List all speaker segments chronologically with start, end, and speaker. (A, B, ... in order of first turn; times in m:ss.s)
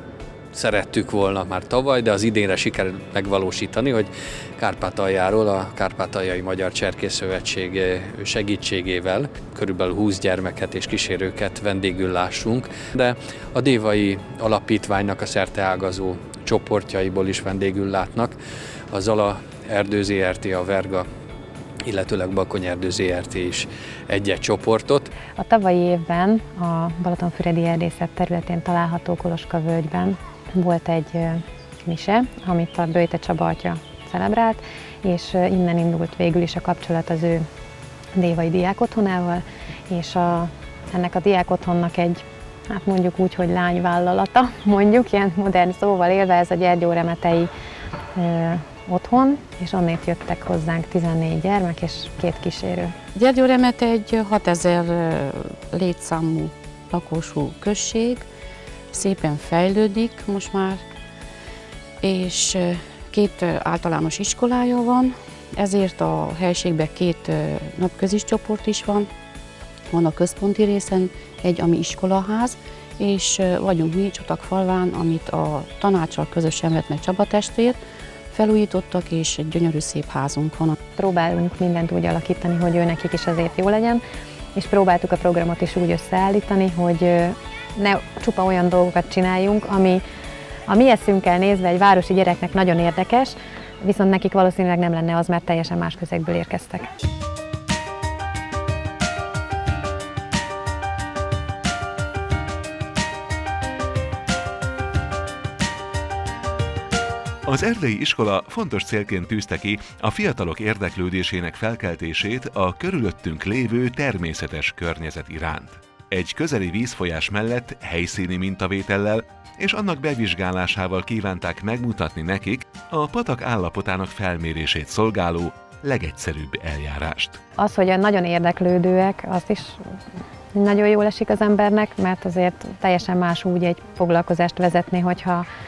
0:00.5-0:18.4 A
0:18.9-0:21.1 A
0:21.8-0:25.1 A
0:25.4-0:37.4 B
0:38.2-0:47.5 B
0:48.2-0:52.9 B
0:53.2-0:58.3 C
0:58.9-1:00.8 C
1:02.0-1:09.1 C
1:09.9-1:17.8 C
1:18.3-1:20.8 C
1:21.0-1:24.0 B
1:24.6-1:30.0 B
1:30.7-1:36.9 B
1:47.5-2:07.4 D
2:07.6-2:09.8 B
2:10.5-2:15.5 B